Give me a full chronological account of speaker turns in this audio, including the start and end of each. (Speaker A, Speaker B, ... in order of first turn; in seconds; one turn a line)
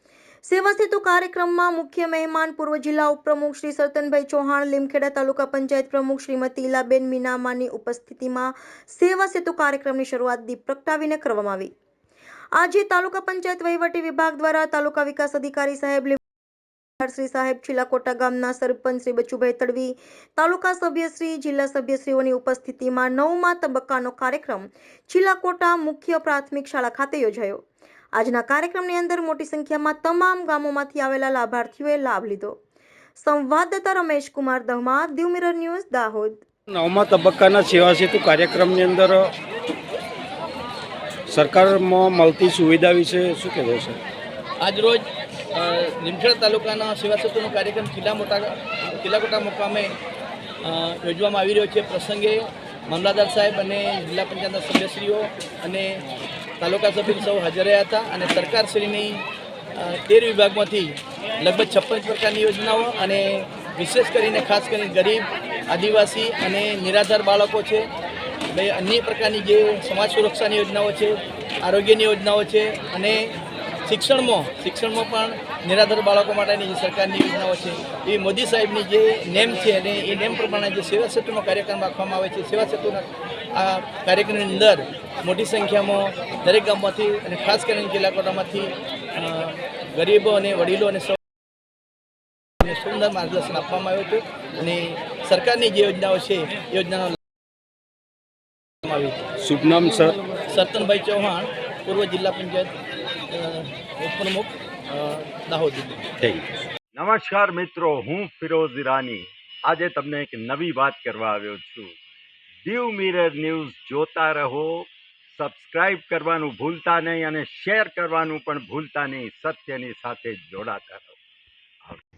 Speaker A: 0.4-11.7
Speaker A: 12.5-16.2
Speaker A: 17.0-27.6
Speaker A: 28.1-32.6
Speaker A: 33.1-36.4
Speaker B: 36.7-39.3
Speaker B: 41.3-44.0
Speaker C: 44.6-49.9
Speaker C: 50.6-56.0
Speaker C: 56.6-59.2
Speaker C: 59.8-67.9
Speaker C: 68.5-73.3
Speaker C: 73.8-91.2
Speaker C: 92.6-97.2
Speaker C: 98.8-99.2
Speaker B: 99.4-100.2
Speaker C: 100.5-102.7
Speaker C: 103.3-106.0
Speaker D: 106.2-111.9
Speaker D: 112.6-121.2